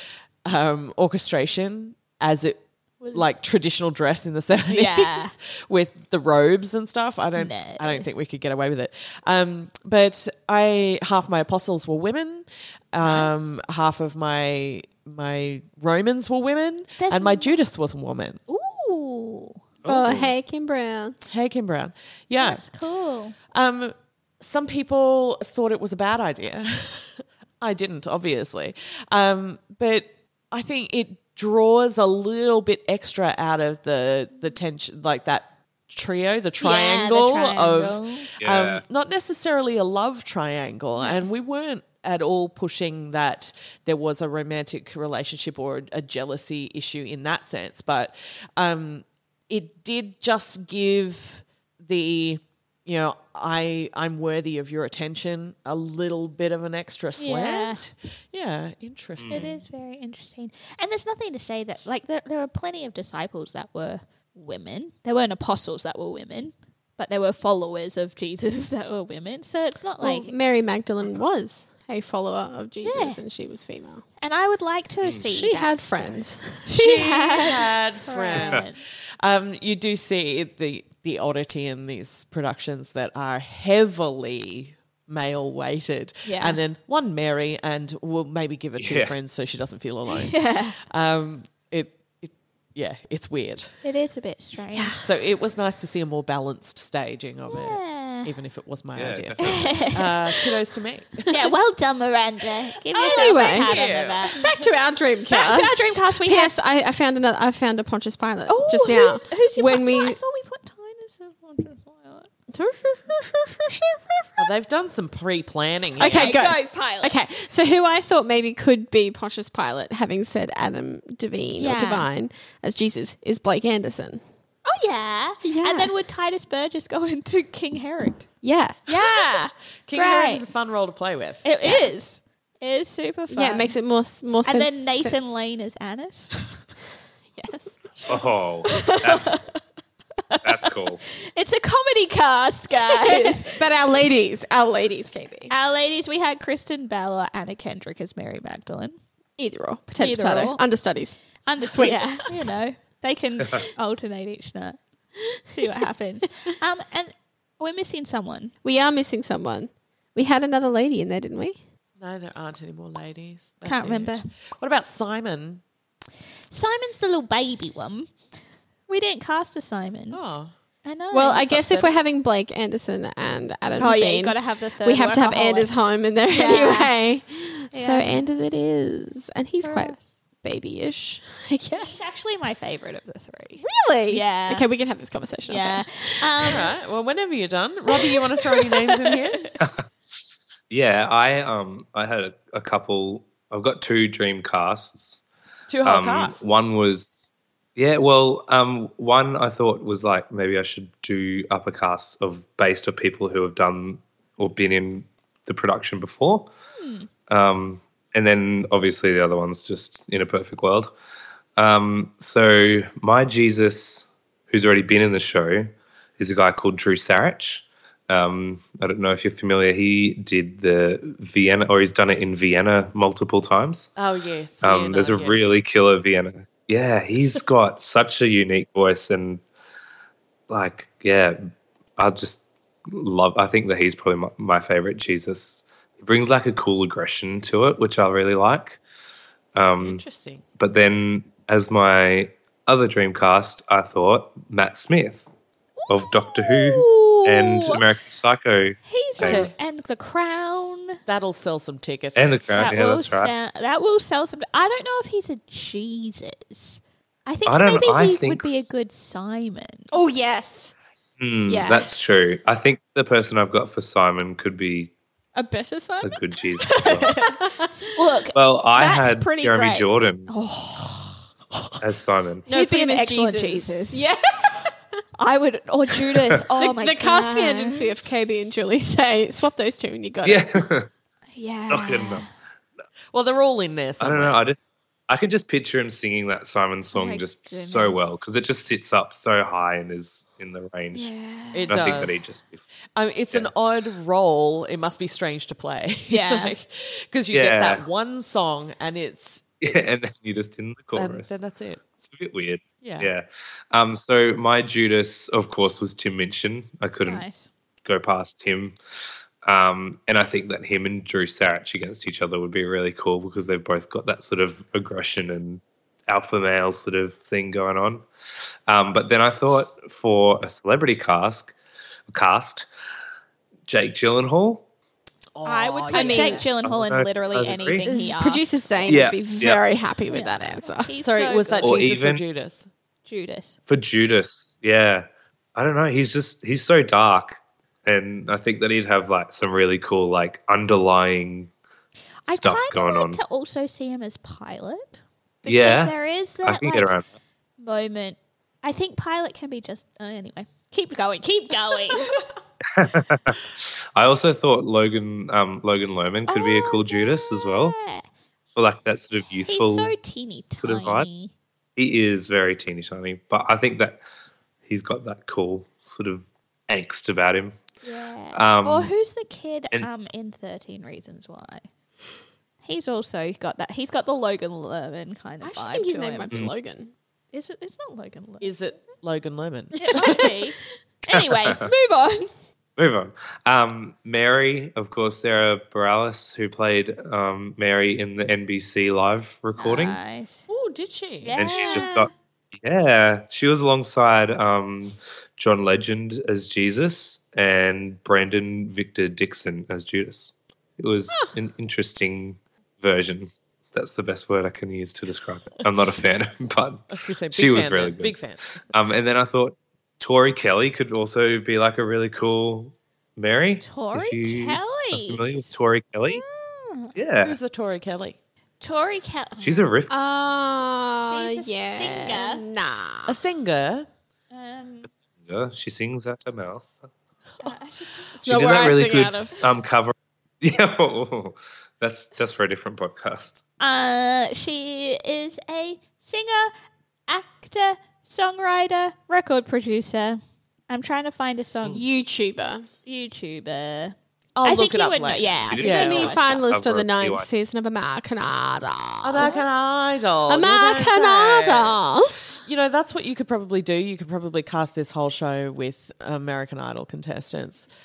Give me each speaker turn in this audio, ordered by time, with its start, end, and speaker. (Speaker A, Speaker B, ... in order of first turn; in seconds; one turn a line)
Speaker A: 0.4-18.4
Speaker B: 3.0-3.2
Speaker B: 4.7-5.3
Speaker B: 7.3-8.1
Speaker B: 13.0-13.5
Speaker B: 17.0-17.6
Speaker B: 18.5-19.6
Speaker C: 19.8-20.3
Speaker D: 19.9-21.2
Speaker A: 21.3-22.6
Speaker B: 22.4-23.4
Speaker A: 23.5-59.6
Speaker B: 36.6-38.3
Speaker C: 38.4-38.8
Speaker B: 57.2-57.8
Speaker C: 59.2-59.4
Speaker B: 59.3-70.3
Speaker D: 70.0-74.0
Speaker B: 72.8-73.2
Speaker B: 74.2-78.8
Speaker D: 75.3-77.1
Speaker A: 76.7-93.8
Speaker B: 86.2-86.6
Speaker C: 88.8-89.1
Speaker B: 90.3-90.8
Speaker B: 93.8-95.0
Speaker D: 94.7-95.1
Speaker A: 95.0-101.3
Speaker B: 97.5-98.3
Speaker C: 98.9-99.8
Speaker B: 99.4-100.5
Speaker B: 101.3-104.4
Speaker D: 102.9-103.7
Speaker A: 103.2-104.7
Speaker D: 104.3-110.2
Speaker B: 105.3-106.5
Speaker B: 108.5-112.3
Speaker D: 112.5-114.4
Speaker A: 114.4-116.4
Speaker D: 116.0-124.2
Speaker B: 116.0-117.2
Speaker B: 121.6-122.1
Speaker B: 124.7-128.3
Speaker D: 125.4-125.9
Speaker D: 128.4-128.8
Speaker B: 128.8-130.4
Speaker A: 129.9-131.8
Speaker B: 131.4-133.8
Speaker D: 133.3-135.2
Speaker B: 134.4-136.7
Speaker B: 137.4-138.1
Speaker D: 137.4-138.1
Speaker C: 138.1-139.4
Speaker B: 138.7-139.6
Speaker C: 140.4-141.0
Speaker B: 141.1-143.6
Speaker D: 143.1-145.5
Speaker B: 145.5-149.0
Speaker D: 149.4-152.5
Speaker B: 150.0-150.6
Speaker B: 151.4-154.8
Speaker B: 155.5-158.5
Speaker D: 158.6-161.6
Speaker A: 162.0-165.6
Speaker B: 163.6-164.3
Speaker B: 166.5-168.1
Speaker B: 168.9-170.2
Speaker A: 170.1-170.5
Speaker B: 170.8-172.0
Speaker D: 171.1-182.1
Speaker B: 173.8-175.7
Speaker B: 176.3-176.9
Speaker B: 177.7-178.2
Speaker B: 179.6-180.0
Speaker B: 181.7-184.7
Speaker D: 183.6-186.3
Speaker B: 185.4-186.7
Speaker A: 186.4-189.5
Speaker B: 188.0-189.6
Speaker C: 190.7-195.2
Speaker A: 195.7-196.6
Speaker C: 195.8-206.5
Speaker B: 206.8-207.1
Speaker C: 207.3-210.9
Speaker C: 211.6-223.9
Speaker A: 224.0-225.5
Speaker C: 224.6-229.4
Speaker C: 230.5-231.4
Speaker C: 232.0-238.8
Speaker C: 239.5-240.0
Speaker A: 239.8-240.4
Speaker C: 240.6-245.2
Speaker B: 245.8-247.8
Speaker C: 245.9-249.5
Speaker B: 248.8-251.0
Speaker A: 249.2-249.5
Speaker A: 251.1-252.7
Speaker C: 252.1-253.3
Speaker B: 252.6-259.9
Speaker C: 257.4-258.8
Speaker D: 259.9-260.7
Speaker C: 261.2-264.9
Speaker D: 261.5-261.9
Speaker D: 265.4-267.9
Speaker C: 266.0-267.1
Speaker B: 266.7-267.4
Speaker B: 267.9-271.2
Speaker C: 268.3-270.3
Speaker C: 271.8-272.4
Speaker D: 272.4-274.7
Speaker B: 272.5-274.1
Speaker B: 275.2-277.9
Speaker D: 276.6-280.6
Speaker C: 280.2-280.9
Speaker B: 281.3-282.3
Speaker C: 281.7-282.3
Speaker A: 283.1-284.4
Speaker C: 284.0-291.1
Speaker B: 286.9-288.1
Speaker B: 290.9-292.0
Speaker A: 291.5-292.2
Speaker C: 291.7-292.6
Speaker A: 292.9-299.9
Speaker B: 296.1-296.5
Speaker C: 297.3-297.8
Speaker C: 299.6-301.3
Speaker A: 300.9-301.8
Speaker C: 302.0-307.2
Speaker A: 302.8-303.1
Speaker B: 307.0-307.5
Speaker C: 307.8-308.8
Speaker C: 309.4-318.0
Speaker C: 318.7-321.5
Speaker C: 322.1-322.7
Speaker C: 323.7-324.6
Speaker A: 325.4-326.5
Speaker B: 325.4-329.0
Speaker D: 325.9-326.4
Speaker C: 326.6-327.8
Speaker D: 327.8-331.0
Speaker C: 328.9-329.6
Speaker B: 330.1-331.8
Speaker A: 331.0-332.7
Speaker C: 331.6-332.2
Speaker B: 333.1-333.6
Speaker C: 333.7-341.5
Speaker B: 342.2-346.9
Speaker C: 342.2-343.2
Speaker C: 345.4-347.0
Speaker B: 347.6-352.2
Speaker C: 352.7-357.8
Speaker B: 356.3-358.1
Speaker C: 358.5-359.9
Speaker B: 359.5-361.3
Speaker C: 360.6-361.1
Speaker C: 361.8-364.0
Speaker C: 364.6-367.6
Speaker B: 367.8-371.7
Speaker C: 368.3-368.9
Speaker B: 372.6-376.4
Speaker D: 375.4-376.9
Speaker B: 377.3-378.5
Speaker A: 378.4-380.3
Speaker B: 379.8-382.3
Speaker C: 381.1-381.5
Speaker C: 382.8-390.0
Speaker B: 389.6-390.4
Speaker A: 390.5-391.9
Speaker B: 391.2-392.1
Speaker C: 391.4-408.2
Speaker A: 406.9-408.4
Speaker C: 408.7-416.2
Speaker B: 413.6-415.5
Speaker B: 416.1-416.9
Speaker C: 416.9-417.4
Speaker A: 417.2-418.2
Speaker B: 418.6-419.7
Speaker C: 419.4-419.9
Speaker D: 419.9-423.2
Speaker B: 421.0-422.4
Speaker A: 423.1-423.9
Speaker B: 424.3-424.9
Speaker C: 424.9-426.9
Speaker B: 427.4-428.1
Speaker D: 428.2-429.4
Speaker C: 428.2-433.4
Speaker B: 433.6-436.5
Speaker B: 437.1-441.8
Speaker D: 441.7-442.7
Speaker B: 442.8-446.4
Speaker A: 444.3-446.1
Speaker C: 445.5-447.3
Speaker D: 445.6-449.3
Speaker A: 449.0-451.8
Speaker B: 449.2-449.4
Speaker D: 450.3-452.3
Speaker A: 452.4-457.6